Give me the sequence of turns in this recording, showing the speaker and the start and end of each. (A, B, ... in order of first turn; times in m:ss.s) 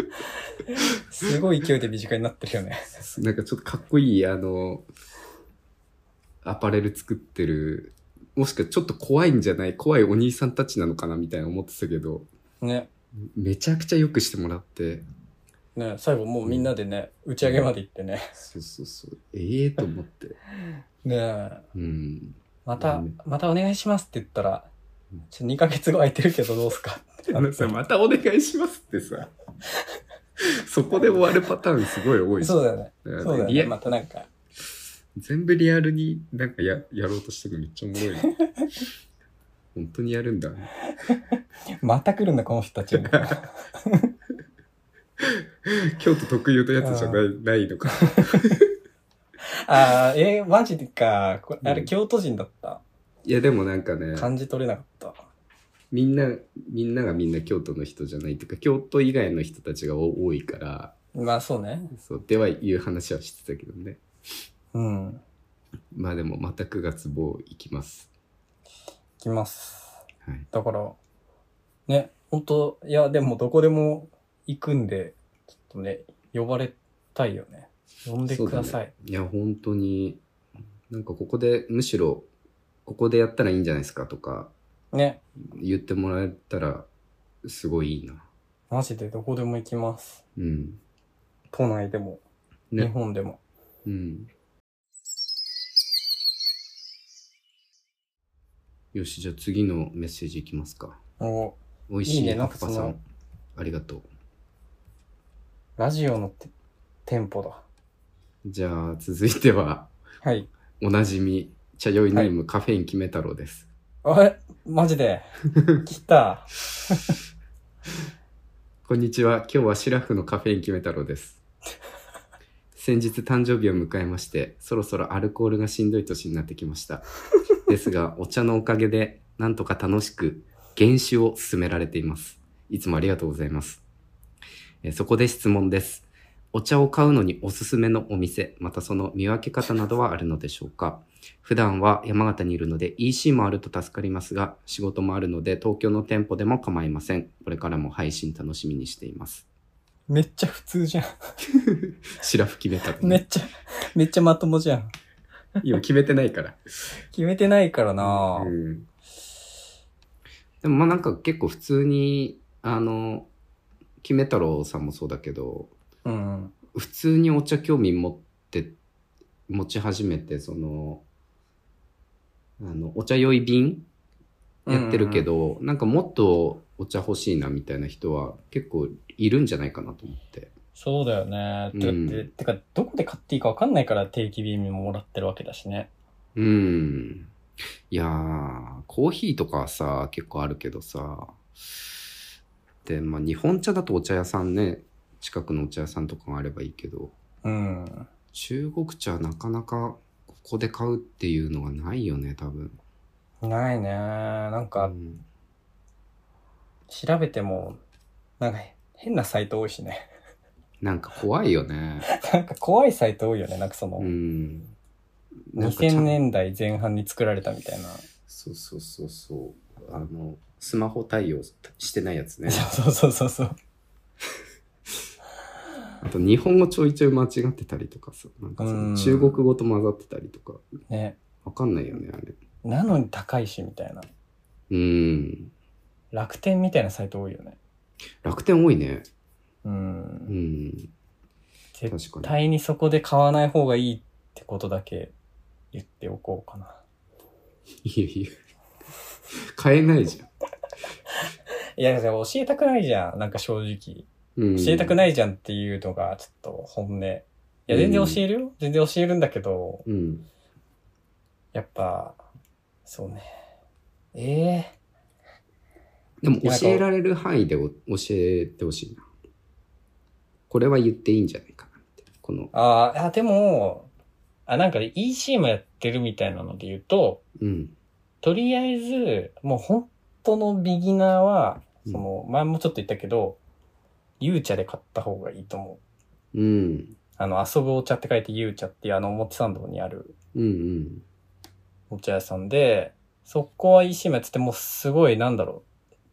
0:00.7-0:02.9 A
0:03.0-0:04.9 B
0:06.4-0:12.3 B
0:12.6-0:12.9 A
0:13.3-0:15.0 B
0:15.8-0:18.4 A
0:16.4-0:16.7 B
0:17.4-0:17.7 B
0:18.4-0:20.4 B
0:21.0-0:21.6 A
0:21.7-0:23.1 B
0:22.6-0:24.7 A
0:25.3-0:27.7 A
0:27.3-0:29.3 B
0:30.4-0:33.8 B
0:32.4-0:34.3 A
0:35.1-0:38.3 B
0:39.8-0:40.7 B
0:41.8-0:44.1 A
0:42.9-0:43.4 B
0:45.2-0:48.7 B
0:46.8-0:47.2 A
0:49.5-0:52.8 A
0:51.6-0:51.9 B
0:53.2-0:54.3 B
0:54.1-0:55.2 A
0:55.9-1:00.9 B
1:01.1-1:01.9 A
1:01.9-1:04.0 B
1:04.7-1:05.2 A
1:05.9-1:08.1 B
1:09.2-1:11.0 A
1:11.9-1:18.9 A
1:18.3-1:20.2 B
1:20.9-1:22.3 B
1:22.9-1:24.5 B
1:24.9-1:25.2 A
1:25.4-1:26.9 B
1:27.4-1:28.3 B
1:28.7-1:30.2 A
1:30.4-1:30.8 B
1:31.5-1:32.2 A
1:32.8-1:33.4 A
1:33.8-1:34.3 B
1:38.9-1:41.0 B
1:41.2-1:43.0 A
1:41.9-1:43.0 B
1:43.6-1:44.1 B
1:45.8-1:46.5 A
1:47.1-1:47.6 A
1:48.4-1:49.9 B
1:50.2-1:50.5 A
1:50.8-1:53.7 B
1:54.0-1:57.1 A
1:58.8-2:01.4 B
2:02.8-2:07.1 B
2:07.6-2:13.8 B
2:14.8-2:29.5 B
2:30.1-2:31.1 A
2:31.5-2:33.2 B
2:33.0-2:34.9 A
2:35.6-2:36.6 B
2:37.1-2:38.5 A
2:38.0-2:38.9 B
2:40.6-2:43.3 B
2:44.0-2:45.7 B
2:46.0-2:46.6 A
2:46.7-2:48.8 B
2:49.5-2:51.0 B
2:52.6-2:53.9 B
2:54.6-2:55.3 A
2:54.7-3:00.5 B
3:00.8-3:05.9 A
3:01.7-3:02.3 B
3:06.4-3:07.3 B
3:07.9-3:11.4 B
3:12.8-3:17.1 B
3:17.4-3:18.1 A
3:18.3-3:22.8 B
3:23.4-3:24.9 A
3:24.8-3:25.2 B
3:26.9-3:27.8 A
3:28.4-3:30.1 A
3:30.8-3:32.1 B
3:32.1-3:34.1 A
3:34.0-3:34.7 B
3:35.5-3:36.2 B
3:35.6-3:38.1 A
3:38.3-3:42.7 B
3:42.5-3:43.6 A
3:46.0-3:50.6 B
3:48.6-3:49.4 A
3:50.9-3:51.2 A
3:51.4-3:52.4 B
3:52.6-3:54.1 A
3:54.7-3:55.5 B
3:56.1-3:57.6 A
3:58.2-3:59.1 B
3:59.6-4:00.3 A
4:00.3-4:00.9 B
4:01.8-4:05.1 A
4:01.9-4:02.4 B
4:05.7-4:06.8 A
4:07.8-4:08.3 B
4:09.3-4:10.3 B
4:11.8-4:19.8 A
4:14.4-4:14.9 B
4:17.7-4:18.2 B
4:19.9-4:20.3 B
4:21.5-4:22.2 A
4:22.9-4:23.3 A
4:24.1-4:24.7 A
4:26.2-4:29.0 B
4:26.4-4:26.9 A
4:30.5-4:32.5 B
4:32.5-4:33.9 A
4:34.5-4:37.2 A
4:37.4-4:37.8 B
4:38.2-4:43.4 A
4:44.2-4:45.8 A
4:46.3-4:47.0 B
4:47.2-4:50.1 A
4:50.3-4:51.0 B
4:51.9-4:55.6 A